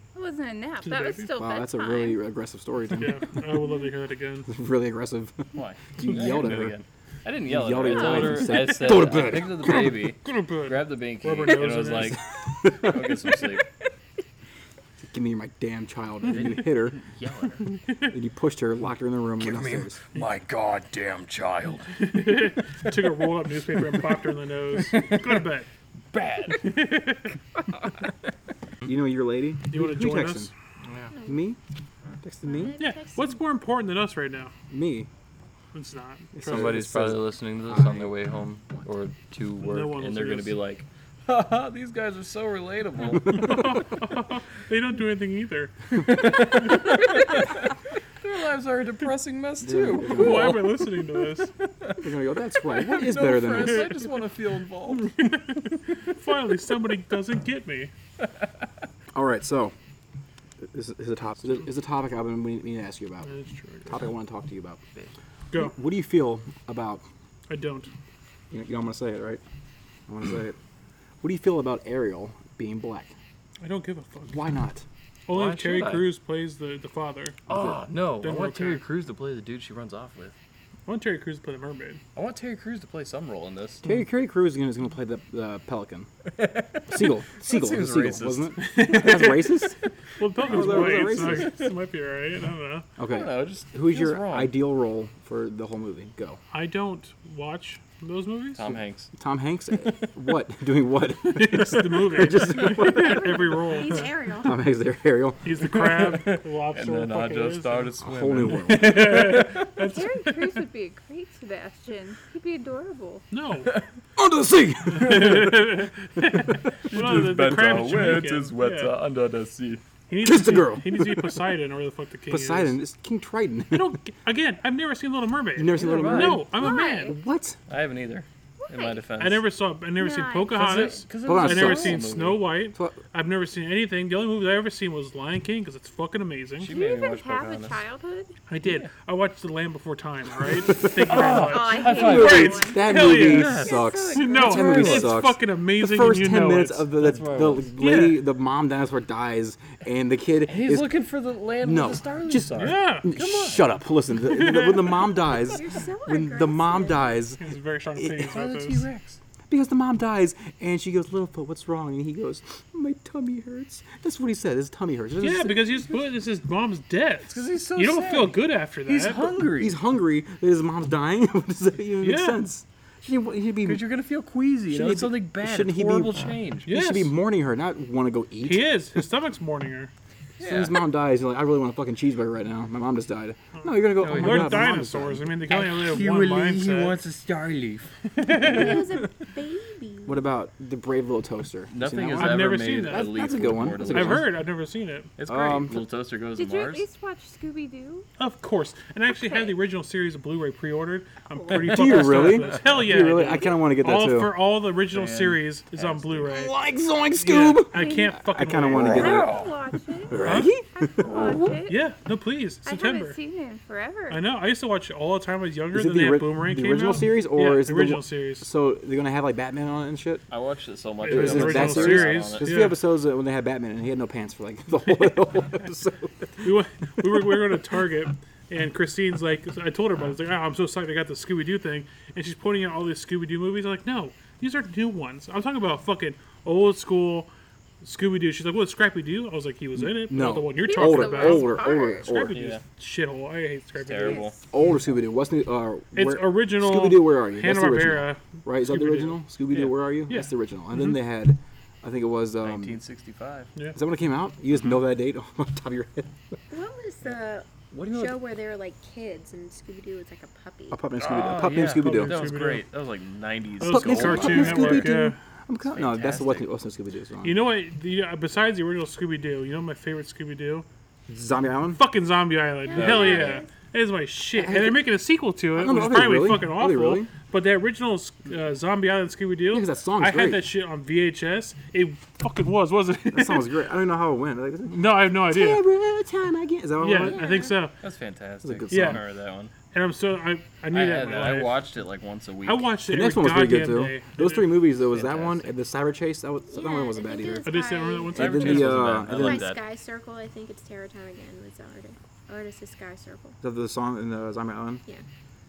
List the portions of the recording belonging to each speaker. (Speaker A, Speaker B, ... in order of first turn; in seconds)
Speaker A: 0.1-2.2, 109.8-113.2, 126.5-127.2, 128.6-129.0, 130.0-130.7, 136.7-138.3, 141.1-145.0, 196.3-198.1, 199.1-199.6, 207.7-208.1, 208.9-210.2, 210.8-211.8, 212.6-214.2, 240.6-242.3, 244.0-244.5
Speaker B: 0.8-1.3, 2.9-4.5, 10.2-12.2, 22.0-25.7, 26.6-27.3, 29.7-30.5, 32.8-34.5, 35.7-36.8, 39.6-40.6, 43.3-45.7, 50.0-51.5, 54.9-57.9, 63.2-64.1, 67.5-67.9, 73.6-74.4, 75.3-77.4, 78.2-78.8, 80.9-82.0, 88.6-92.9, 96.5-98.7, 101.2-104.1, 105.4-107.9, 108.6-110.6, 113.3-113.7, 114.9-118.9, 120.1-122.8, 123.7-127.2, 129.2-136.7, 138.5-146.9, 147.8-148.2, 152.6-153.1, 154.3-154.9, 157.4-158.8, 165.2-169.3, 172.0-172.4, 176.7-177.1, 178.4-179.9, 183.6-187.0, 188.2-188.7, 192.2-193.2, 193.8-195.1, 198.2-206.6, 207.2-209.2, 210.2-210.5, 211.7-213.2, 214.1-218.5, 221.1-222.8, 226.4-237.3, 237.8-244.3, 245.9-249.2, 261.6-262.6, 263.6-265.2, 267.2-270.7, 271.8-283.5, 284.7-285.6, 286.8-287.8, 288.7-289.0, 289.7-291.6, 292.4-294.7, 297.4-298.9
Speaker C: 1.4-3.3, 4.5-6.8, 7.5-10.0, 12.3-13.4, 15.1-17.0, 18.0-20.0, 28.9-30.5, 31.3-31.6, 32.2-32.8, 34.7-35.1, 36.4-38.1, 49.6-50.7, 51.9-53.9, 59.1-59.7, 60.6-63.3, 63.9-64.8, 65.5-67.0, 68.5-69.4, 70.1-70.6, 71.2-73.1, 74.3-74.8, 77.5-77.8, 83.8-86.1, 86.9-89.8, 90.4-91.5, 93.0-96.4, 99.2-103.6, 104.4-105.6, 108.0-109.2, 114.2-115.6, 120.2-121.3, 122.3-124.0, 125.6-127.6, 131.2-132.2, 140.6-141.2, 142.0-150.9, 151.6-157.4, 158.0-158.4, 159.5-165.9, 169.5-173.8, 174.7-178.7, 180.4-185.4, 190.1-194.3, 195.3-195.8, 201.6-204.3, 206.3-209.4, 210.1-211.6, 215.7-220.3, 221.1-226.4, 239.8-242.4, 244.5-252.8, 253.8-256.2, 260.7-262.3, 263.7-267.4, 271.1-271.8, 274.4-274.8, 275.5-277.1, 279.5-280.5, 283.1-287.4, 288.4-289.0, 292.9-297.4, 298.1-299.4, 303.4-304.8
Speaker D: 5.5-13.7, 16.3-17.6, 19.4-21.9, 24.9-25.4, 26.1-26.8, 30.8-31.1, 36.4-43.6, 45.9-50.9, 52.7-55.5, 75.3-76.1, 77.5-80.3, 82.2-83.9, 86.4-88.6, 90.4-91.7, 93.0-94.5, 98.6-99.1, 99.7-100.1, 105.7-109.7, 116.6-119.8, 125.7-126.4, 127.7-129.5, 130.5-132.5, 136.6-137.8, 138.6-138.9, 141.1-143.9, 144.6-145.2, 147.0-147.7, 150.5-153.7, 158.3-159.2, 167.3-169.8, 173.6-176.7, 180.4-180.8, 184.0-184.8, 185.5-189.1, 191.7-194.3, 195.2-196.8, 201.8-202.5, 204.9-206.3, 208.7-209.5, 220.3-222.6, 242.3-242.6, 243.8-244.3, 252.4-253.5, 261.0-264.9, 265.7-266.5, 272.8-273.4, 287.8-289.5, 290.7-292.7, 294.9-295.6, 298.1-299.6
Speaker E: 32.4-33.4, 102.8-104.7, 155.4-157.2, 188.3-190.2, 256.5-260.8, 272.6-273.5, 286.9-287.6, 296.5-298.2, 299.1-303.4